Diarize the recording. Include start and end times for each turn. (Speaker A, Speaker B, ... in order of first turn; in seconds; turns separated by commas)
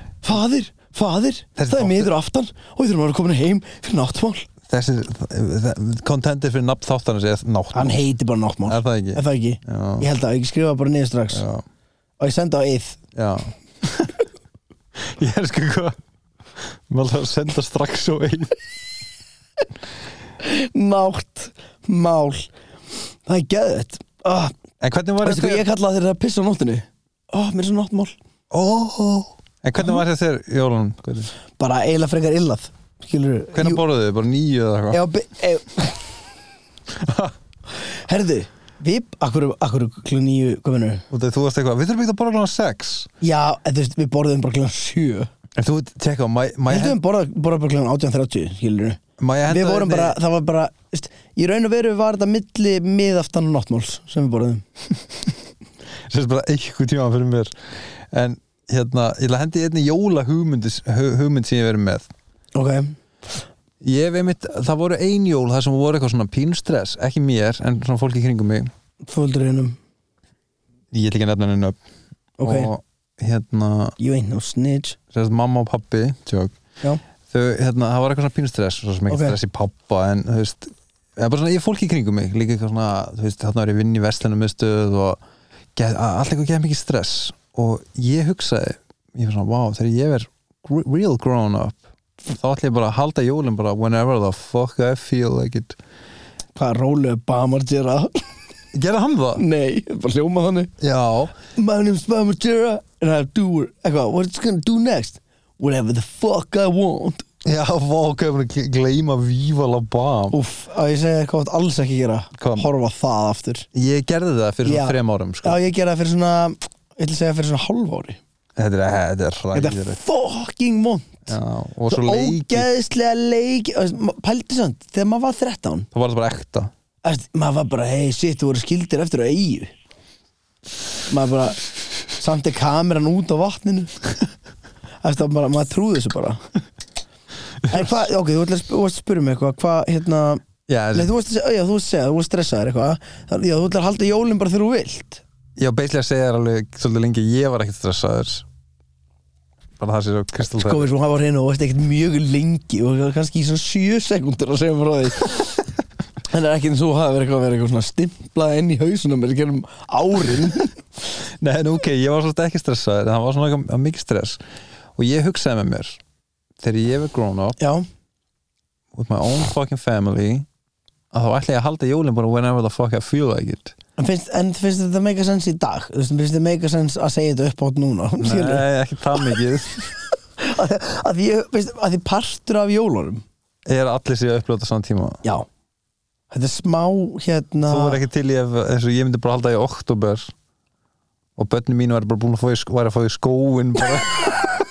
Speaker A: 0.2-4.5, Speaker B: 1.6-2.1, Speaker B: 4.7-8.0, Speaker A: 7.7-11.5, Speaker B: 8.7-10.1, Speaker B: 11.3-11.6, Speaker A: 12.2-13.0, Speaker B: 13.2-14.2, Speaker B: 15.0-16.0, Speaker B: 16.6-18.5, Speaker A: 20.4-22.5, Speaker A: 23.3-24.5, Speaker B: 24.8-25.6, Speaker A: 25.2-28.2, Speaker B: 28.5-31.3, Speaker A: 31.6-33.8, Speaker B: 33.5-35.0, Speaker A: 34.9-36.1, Speaker B: 36.9-37.4, Speaker A: 37.8-41.0, Speaker B: 41.1-43.1, Speaker A: 43.2-45.3, Speaker B: 45.6-47.0, Speaker A: 46.7-54.6, Speaker B: 49.2-50.2, Speaker B: 56.1-62.1, Speaker A: 62.5-63.0, Speaker B: 63.8-68.7, Speaker A: 69.0-69.8, Speaker B: 70.9-71.8, Speaker A: 72.4-72.7, Speaker B: 72.4-74.0, Speaker A: 74.0-75.0, Speaker B: 75.1-76.5, Speaker B: 77.3-85.2, Speaker A: 79.1-79.4, Speaker B: 85.8-95.8, Speaker A: 96.5-98.2, Speaker B: 98.7-99.4, Speaker A: 99.4-100.7, Speaker B: 100.8-101.3, Speaker A: 101.5-107.3, Speaker B: 107.4-110.4, Speaker A: 110.3-113.7, Speaker B: 112.4-112.7, Speaker B: 113.7-115.6, Speaker A: 114.7-118.2, Speaker B: 118.6-120.0, Speaker A: 119.5-121.3, Speaker B: 121.3-122.7, Speaker A: 121.9-125.9, Speaker B: 125.9-126.7, Speaker A: 127.0-129.7, Speaker A: 131.1-133.9, Speaker A: 135.0-136.4, Speaker B: 137.6-138.1, Speaker A: 137.7-145.2, Speaker B: 140.7-141.1, Speaker B: 145.6-148.5, Speaker B: 149.8-150.9, Speaker A: 150.4-155.6, Speaker A: 156.3-160.8, Speaker B: 161.4-164.4, Speaker B: 165.0-166.0, Speaker B: 166.6-167.6, Speaker A: 167.6-167.8, Speaker B: 168.9-170.5, Speaker B: 171.1-173.8, Speaker A: 174.0-178.7, Speaker B: 178.2-179.9, Speaker A: 180.4-183.2, Speaker B: 183.7-185.2, Speaker A: 186.3-188.0, Speaker B: 187.7-190.3, Speaker B: 191.4-194.4